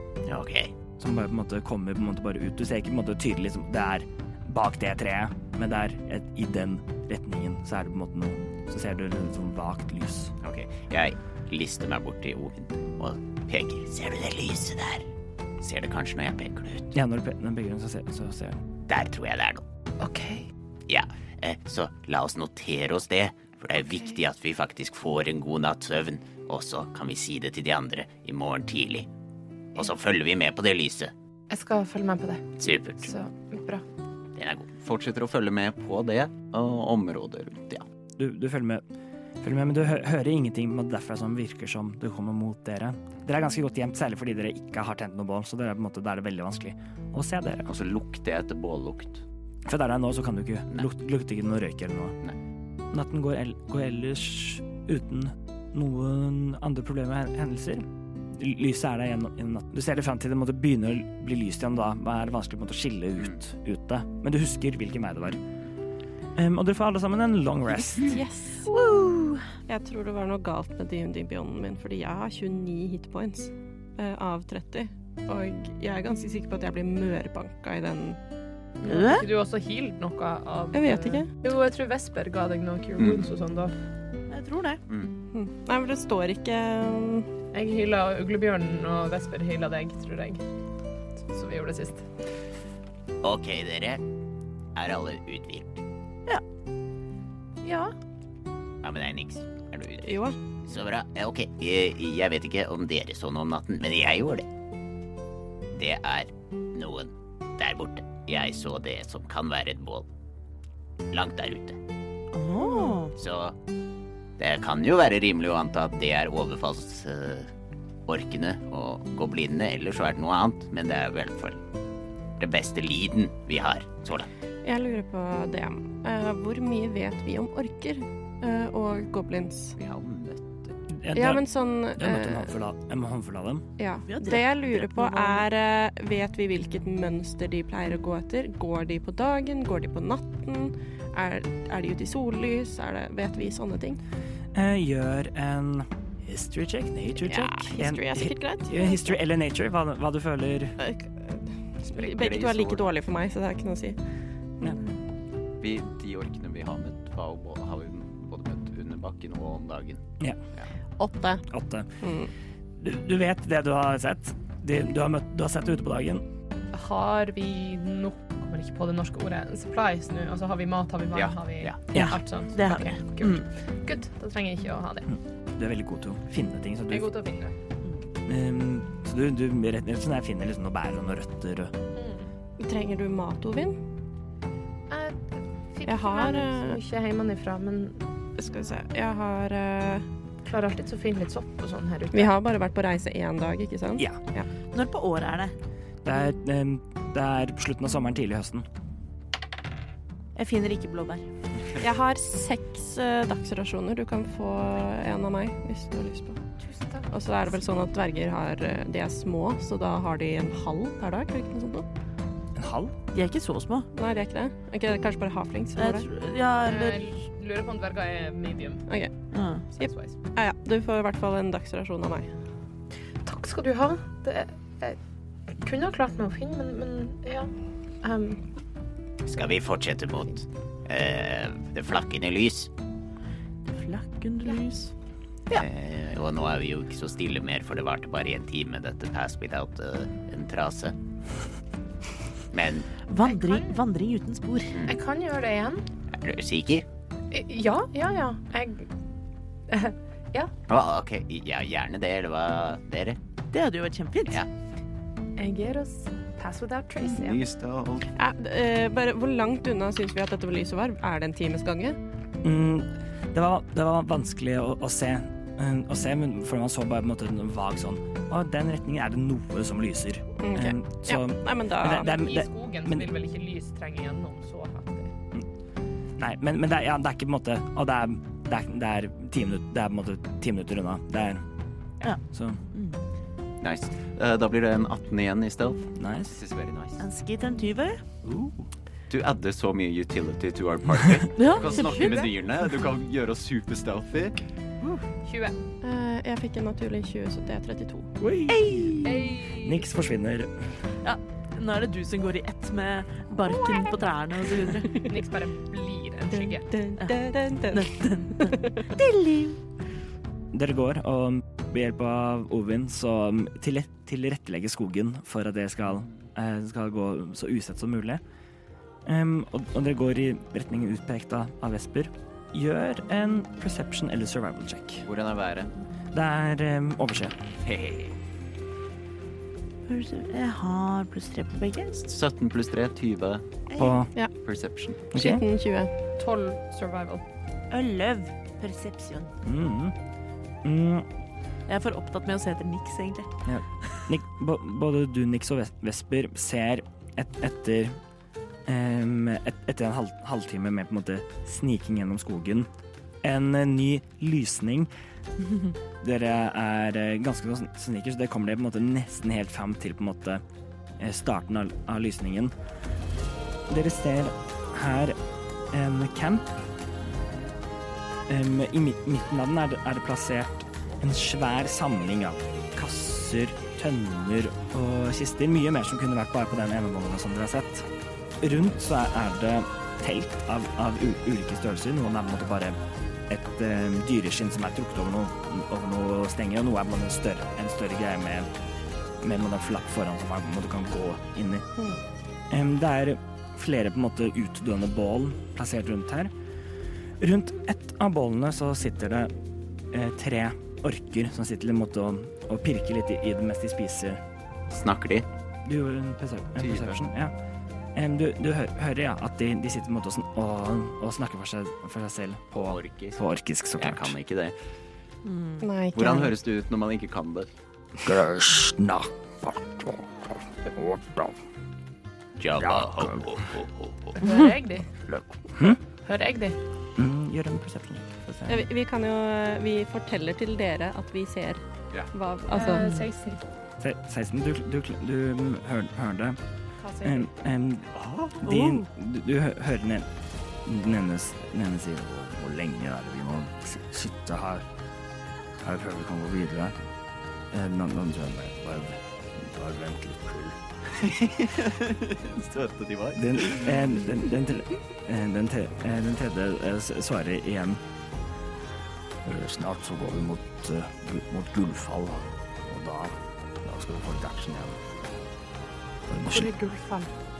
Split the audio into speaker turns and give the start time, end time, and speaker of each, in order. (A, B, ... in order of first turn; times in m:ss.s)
0:00.2-0:00.7 A
0:01.0-0:10.3 B
0:10.4-0:15.0 A
0:15.6-0:16.9 A
0:16.9-0:18.6 B
0:18.9-0:19.6 A
0:20.0-0:20.4 C
0:20.9-0:29.1 A
0:29.7-0:31.1 A
0:31.5-0:32.5 C
0:32.6-0:33.1 A
0:33.0-0:33.8 C
0:34.4-0:37.8 A
0:35.4-0:36.5 D
0:38.2-0:38.8 B
0:39.4-0:47.7 B
0:47.7-0:49.2 A
0:49.6-0:52.2 B
0:52.9-1:05.4 B
1:06.4-1:08.2 B
1:08.0-1:08.7 E
1:08.7-1:09.4 F
1:09.7-1:18.2 E
1:18.8-1:19.3 F
1:18.8-1:23.7 C
1:20.7-1:21.3 E
1:24.3-1:24.8 F
1:25.3-1:27.3 E
1:27.5-1:30.4 C
1:31.3-1:32.1 C
1:33.2-1:34.0 A
1:34.7-1:35.8 A
1:37.6-1:37.9 C
1:38.8-1:44.4 A
1:40.0-1:40.4 E
1:45.7-1:50.1 A
1:51.1-1:51.8 A
1:52.3-1:53.1 F
1:52.6-1:53.0 E
1:53.1-1:53.5 A
1:54.4-1:57.5 A
1:58.0-2:01.6 A
2:02.4-2:04.3 A
2:04.6-2:09.8 E
2:09.8-2:10.7 A
2:10.9-2:11.4 B
2:11.1-2:12.5 E
2:12.0-2:13.6 B
2:13.8-2:24.0 E
2:14.1-2:15.4 F
2:24.5-2:30.8 B
2:27.3-2:29.2 E
2:30.8-2:34.0 E
2:31.9-2:32.7 A
2:35.6-2:38.7 D
2:36.3-2:40.0 A
2:41.0-2:41.4 E
2:41.5-2:41.9 B
2:42.0-2:42.3 E
2:42.8-2:46.2 B
2:46.7-2:55.1 C
2:51.1-2:51.8 A
2:51.9-2:53.4 F
2:55.1-2:57.1 B
2:56.9-2:57.5 C
2:58.2-3:01.7 B
3:02.0-3:02.3 C
3:02.6-3:03.8 E
3:04.9-3:08.0 C
3:05.9-3:06.8 E
3:08.4-3:10.0 E
3:10.4-3:12.4 C
3:12.1-3:14.5 E
3:14.7-3:15.5 F
3:16.0-3:18.6 B
3:20.4-3:21.2 F
3:21.8-3:26.4 E
3:26.6-3:27.1 C
3:27.1-3:31.8 E
3:32.5-3:32.9 B
3:33.1-3:33.9 F
3:33.9-3:36.1 E
3:35.8-3:37.0 F
3:36.6-3:38.8 C
3:39.3-3:39.6 F
3:39.7-3:40.1 C
3:39.8-3:42.3 E
3:43.2-3:45.0 C
3:45.6-3:47.5 C
3:48.0-3:48.4 C
3:49.2-3:52.7 A
3:53.6-3:54.9 F
3:55.5-4:00.9 A
4:02.5-4:02.9 A
4:03.1-4:04.8 F
4:03.2-4:03.8 C
4:04.8-4:05.8 C
4:06.1-4:06.8 A
4:07.3-4:08.9 C
4:09.7-4:10.5 C
4:10.7-4:13.2 A
4:13.5-4:14.4 F
4:15.4-4:17.4 C
4:17.0-4:18.1 D
4:18.1-4:22.0 E
4:22.4-4:33.1 B
4:30.4-4:32.1 E
4:31.9-4:35.1 C
4:36.2-4:41.4 B
4:42.3-4:42.6 B
4:42.7-4:43.0 F
4:43.6-4:44.1 A
4:43.8-4:47.0 D
4:45.3-4:45.6 A
4:46.0-4:46.4 B
4:47.0-4:48.0 F
4:49.1-4:54.4 D
4:51.4-4:51.9 F
4:51.6-4:52.3 C
4:55.2-4:55.5 C
4:55.8-4:58.1 E
4:58.2-5:00.7 B
4:58.5-4:59.2 F
4:59.0-4:59.8 C
5:01.0-5:05.1 F
5:03.5-5:04.0 C
5:04.9-5:06.7 C
5:06.4-5:08.9 E
5:07.6-5:09.6 F
5:10.5-5:18.2 B
5:19.0-5:25.0 B
5:25.0-5:25.7 D
5:26.1-5:27.4 B
5:27.6-5:28.1 D
5:29.9-5:32.0 F
5:32.0-5:33.4 D
5:33.8-5:34.1 B
5:34.4-5:35.0 D
5:35.1-5:35.9 E
5:35.1-5:35.4 B
5:36.2-5:37.2 C
5:37.7-5:39.3 F
5:39.4-5:39.9 B
5:40.6-5:41.0 B
5:41.7-5:43.3 F
5:43.4-5:48.0 B
5:48.6-5:52.7 B
5:53.2-5:54.9 B
5:56.0-6:00.4 B
6:01.0-6:02.5 B
6:03.7-6:05.2 B
6:05.7-6:06.5 B
6:08.3-6:17.9 B
6:18.4-6:22.8 B
6:23.3-6:28.5 B
6:29.2-6:31.6 B
6:32.5-6:36.3 B
6:37.2-6:39.3 B
6:39.9-6:44.2 B
6:44.7-6:45.2 A
6:45.6-6:47.3 B
6:46.6-6:47.0 D
6:47.9-6:54.1 B
6:52.6-6:53.2 A
6:53.8-6:54.4 A
6:55.2-6:55.6 F
6:55.6-6:56.3 E
6:55.9-6:57.5 D
6:58.0-7:01.3 B
7:02.4-7:04.2 A
7:02.6-7:03.3 B
7:04.2-7:04.9 C
7:05.1-7:05.8 B
7:05.9-7:06.6 C
7:07.0-7:08.7 B
7:08.5-7:11.6 E
7:12.1-7:13.0 E
7:12.5-7:13.4 C
7:13.8-7:16.4 B
7:16.8-7:17.3 C
7:17.0-7:20.0 B
7:18.4-7:18.8 F
7:20.6-7:24.6 B
7:25.6-7:26.8 B
7:27.5-7:30.6 B
7:31.0-7:33.7 D
7:33.1-7:37.8 B
7:39.2-7:44.8 B
7:46.1-7:46.5 B
7:46.2-7:47.1 C